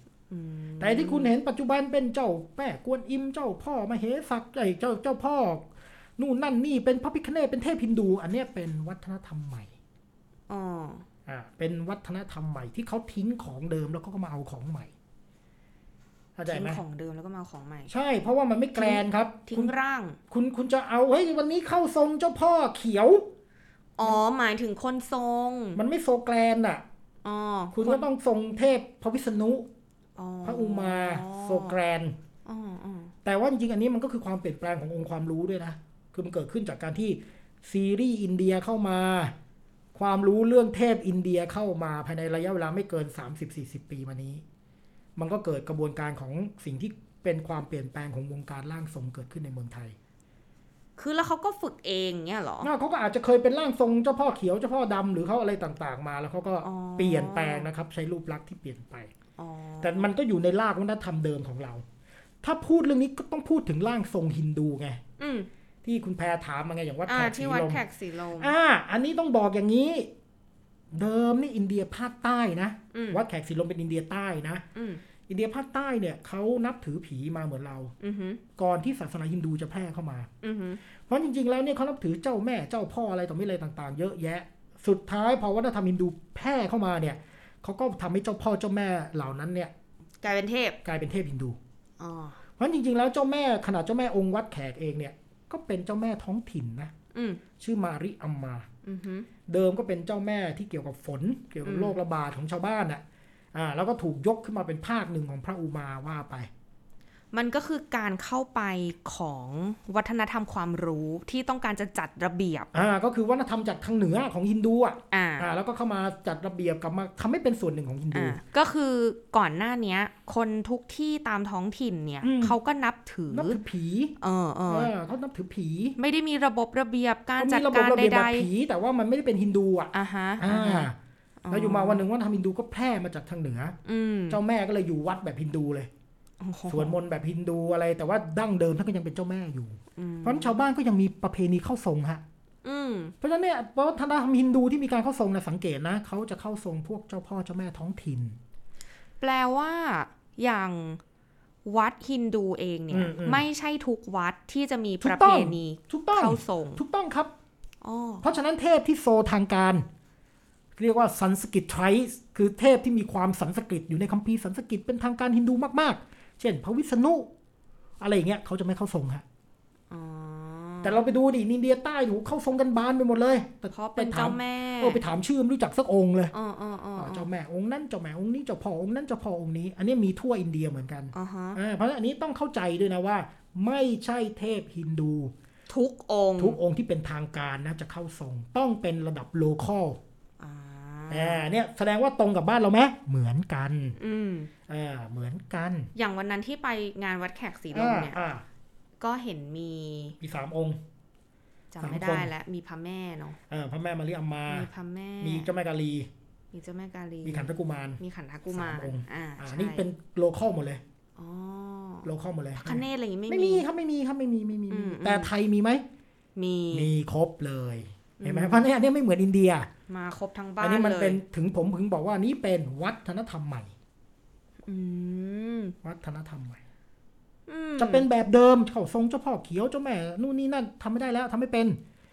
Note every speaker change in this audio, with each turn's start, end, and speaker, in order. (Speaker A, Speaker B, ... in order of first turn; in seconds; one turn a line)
Speaker A: 0.3-1.3
Speaker B: 0.8-9.7
Speaker A: 10.5-11.0
Speaker B: 11.3-14.9
Speaker B: 16.4-16.8
Speaker A: 16.5-17.9
Speaker B: 17.9-19.7
Speaker A: 18.7-20.2
Speaker B: 20.3-23.3
Speaker A: 24.0-25.8
Speaker B: 25.8-26.8
Speaker A: 27.2-28.1
Speaker B: 27.7-29.7
Speaker A: 30.2-31.8
Speaker B: 30.4-32.2
Speaker A: 32.4-33.1
Speaker B: 33.2-39.3
Speaker B: 39.9-44.4
Speaker B: 45.1-50.0
Speaker A: 51.0-52.7
Speaker B: 52.6-59.1
Speaker A: 56.6-57.7
Speaker A: 59.4-60.1
Speaker B: 59.8-61.8
Speaker B: 62.4-65.0
Speaker A: 65.2-65.5
Speaker B: 65.8-67.8
Speaker A: 67.0-68.5
Speaker B: 68.4-70.1
Speaker B: 70.9-74.6
Speaker A: 72.9-73.2
Speaker A: 74.7-75.0
Speaker B: 75.3-77.9
Speaker A: 78.0-78.4
Speaker B: 78.5-80.3
Speaker A: 80.4-80.8
Speaker B: 81.1-89.7
Speaker A: 90.2-90.8
Speaker B: 90.8-91.6
Speaker A: 92.0-92.4
Speaker B: 92.6-96.9
Speaker A: 97.1-97.4
Speaker B: 97.6-98.7
Speaker A: 98.8-99.3
Speaker B: 99.5-103.0
Speaker A: 101.6-102.0
Speaker B: 103.5-106.5
Speaker A: 107.3-112.7
Speaker B: 112.7-118.4
Speaker A: 115.1-115.5
Speaker A: 118.1-123.6
Speaker B: 122.2-122.6
Speaker B: 123.3-124.1
Speaker A: 124.2-124.9
Speaker B: 124.7-126.0
Speaker A: 126.0-128.5
Speaker B: 127.4-130.9
Speaker A: 129.9-130.9
Speaker A: 131.4-132.0
Speaker B: 131.5-133.8
Speaker A: 133.8-134.4
Speaker B: 134.3-135.9
Speaker A: 136.4-137.0
Speaker B: 136.7-142.2
Speaker A: 139.9-140.6
Speaker A: 142.6-143.1
Speaker B: 143.2-148.4
Speaker A: 149.2-151.0
Speaker A: 151.6-156.8
Speaker B: 152.9-153.4
Speaker B: 155.0-157.3
Speaker A: 157.8-158.2
Speaker B: 158.2-159.8
Speaker B: 160.8-167.3
Speaker B: 168.0-169.2
Speaker A: 169.9-171.0
Speaker B: 170.8-176.3
Speaker A: 173.7-175.0
Speaker A: 176.3-177.3
Speaker B: 177.0-185.3
Speaker A: 181.1-181.6
Speaker A: 185.7-186.6
Speaker B: 186.4-190.0
Speaker A: 190.4-191.4
Speaker B: 191.1-194.0
Speaker A: 194.0-194.5
Speaker B: 194.7-195.9
Speaker A: 195.9-198.2
Speaker B: 197.7-198.4
Speaker A: 199.0-200.2
Speaker B: 200.2-200.8
Speaker A: 201.7-203.4
Speaker B: 201.8-202.3
Speaker B: 203.5-204.7
Speaker A: 204.5-205.5
Speaker B: 205.2-206.1
Speaker A: 206.5-209.9
Speaker B: 207.2-210.8
Speaker A: 211.2-212.1
Speaker B: 212.0-215.8
Speaker A: 212.6-213.6
Speaker A: 214.7-215.3
Speaker A: 216.3-216.9
Speaker B: 216.7-219.7
Speaker A: 218.2-218.7
Speaker A: 219.9-221.2
Speaker B: 220.6-223.7
Speaker A: 224.7-225.8
Speaker B: 225.8-226.6
Speaker A: 227.5-228.1
Speaker B: 227.8-231.8